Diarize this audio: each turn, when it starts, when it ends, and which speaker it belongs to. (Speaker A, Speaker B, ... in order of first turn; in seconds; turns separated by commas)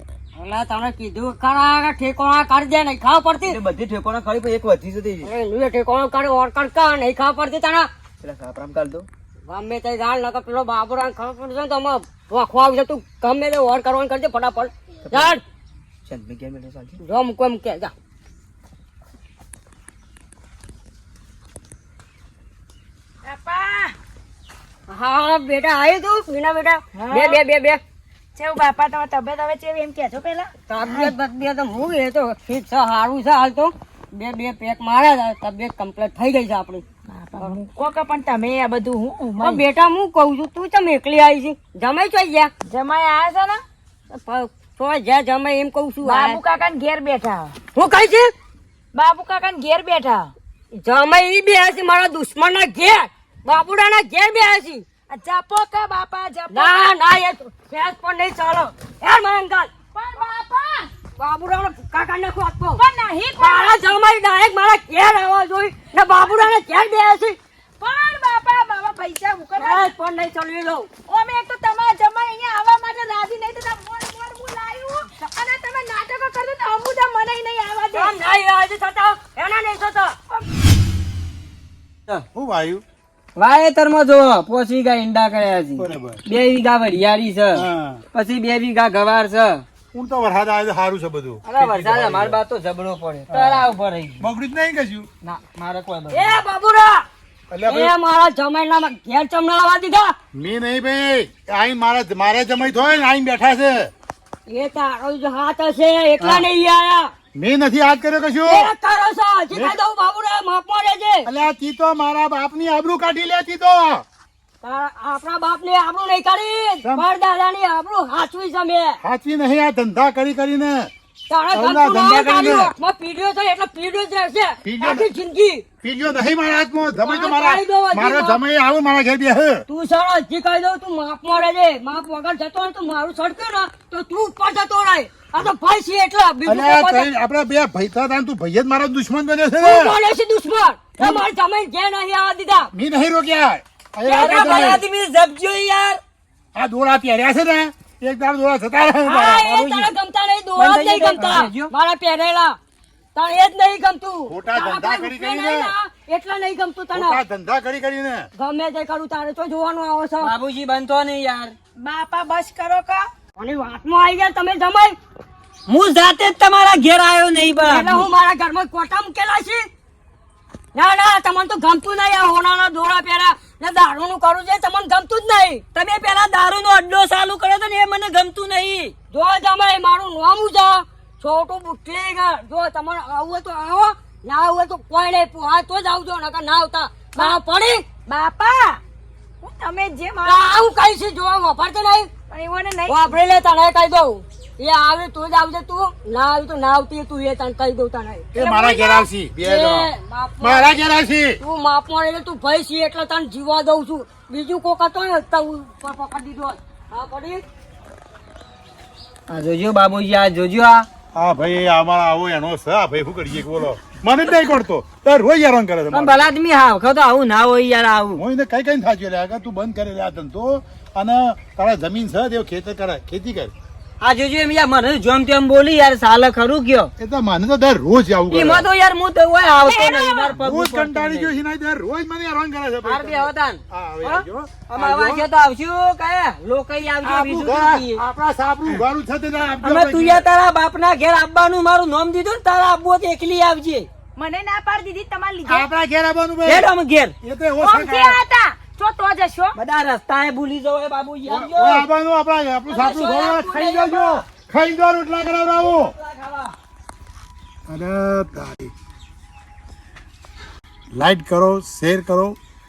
Speaker A: 0.3-3.6, Speaker B: 3.4-5.3, Speaker A: 5.2-7.9, Speaker B: 8.2-9.1, Speaker A: 9.5-15.4, Speaker B: 15.1-15.4, Speaker B: 16.1-17.0, Speaker A: 17.0-17.9, Speaker C: 23.3-23.9, Speaker A: 24.9-27.8, Speaker C: 27.0-27.4, Speaker C: 28.4-30.5, Speaker A: 30.7-36.8, Speaker C: 37.1-39.6, Speaker A: 39.4-42.5, Speaker C: 42.7-43.6, Speaker A: 44.1-46.4, Speaker C: 46.1-47.5, Speaker A: 47.8-48.3, Speaker C: 49.0-50.3, Speaker A: 50.8-54.8, Speaker C: 55.1-56.9, Speaker A: 56.5-59.7, Speaker C: 60.0-60.9, Speaker A: 61.2-62.8, Speaker C: 62.8-63.9, Speaker A: 63.4-67.4, Speaker C: 67.8-69.8, Speaker A: 69.6-70.9, Speaker C: 71.1-78.2, Speaker A: 78.0-80.2, Speaker D: 82.3-82.8, Speaker E: 83.4-89.7, Speaker D: 85.8-86.2, Speaker D: 87.6-88.0, Speaker D: 89.9-92.4, Speaker E: 91.5-94.3, Speaker D: 93.3-93.7, Speaker D: 94.2-95.1, Speaker E: 95.2-96.3, Speaker A: 96.1-97.1, Speaker D: 97.5-97.9, Speaker A: 97.7-100.1, Speaker D: 100.3-103.9, Speaker A: 104.5-107.1, Speaker D: 106.2-106.5, Speaker D: 107.3-108.7, Speaker A: 108.5-111.3, Speaker D: 109.5-109.8, Speaker D: 111.3-114.0, Speaker A: 114.6-119.0, Speaker D: 119.0-120.9, Speaker A: 121.3-125.7, Speaker D: 121.5-122.7, Speaker D: 124.6-125.1, Speaker D: 125.8-129.6, Speaker A: 127.0-128.4, Speaker A: 129.7-137.1, Speaker D: 136.5-140.0, Speaker A: 139.6-142.7, Speaker D: 142.7-144.8, Speaker A: 144.1-144.8, Speaker E: 144.1-146.0, Speaker D: 146.6-149.5, Speaker A: 149.1-152.6, Speaker E: 149.4-149.9, Speaker E: 150.6-151.7, Speaker D: 151.2-151.5, Speaker A: 153.2-157.2, Speaker D: 154.3-155.7, Speaker D: 156.9-158.3, Speaker A: 158.4-160.3, Speaker E: 160.2-161.6, Speaker C: 161.8-163.1, Speaker A: 163.4-164.9, Speaker E: 165.7-168.1, Speaker A: 167.7-169.7, Speaker A: 170.7-175.6, Speaker E: 175.7-178.9, Speaker A: 179.1-187.8, Speaker C: 188.1-188.8, Speaker C: 189.4-190.5, Speaker A: 190.2-192.1, Speaker C: 192.3-193.1, Speaker A: 192.9-198.3, Speaker D: 198.3-199.9, Speaker C: 198.4-199.1, Speaker A: 199.4-200.8, Speaker D: 200.4-201.4, Speaker A: 201.4-207.4, Speaker E: 209.3-210.9, Speaker D: 211.1-216.3, Speaker E: 215.9-218.2, Speaker D: 218.2-223.5, Speaker E: 224.0-226.9, Speaker D: 227.0-228.7, Speaker E: 228.3-231.3, Speaker C: 229.9-230.3, Speaker D: 230.3-235.3, Speaker E: 232.8-238.0, Speaker D: 237.0-240.2, Speaker E: 239.6-243.9, Speaker C: 244.2-245.7, Speaker D: 245.5-246.7, Speaker E: 246.5-247.2, Speaker D: 247.2-248.2, Speaker C: 247.6-249.6, Speaker E: 249.6-251.9, Speaker D: 251.3-255.9, Speaker E: 252.8-253.8, Speaker E: 255.8-256.5, Speaker D: 257.7-258.7, Speaker D: 260.9-262.4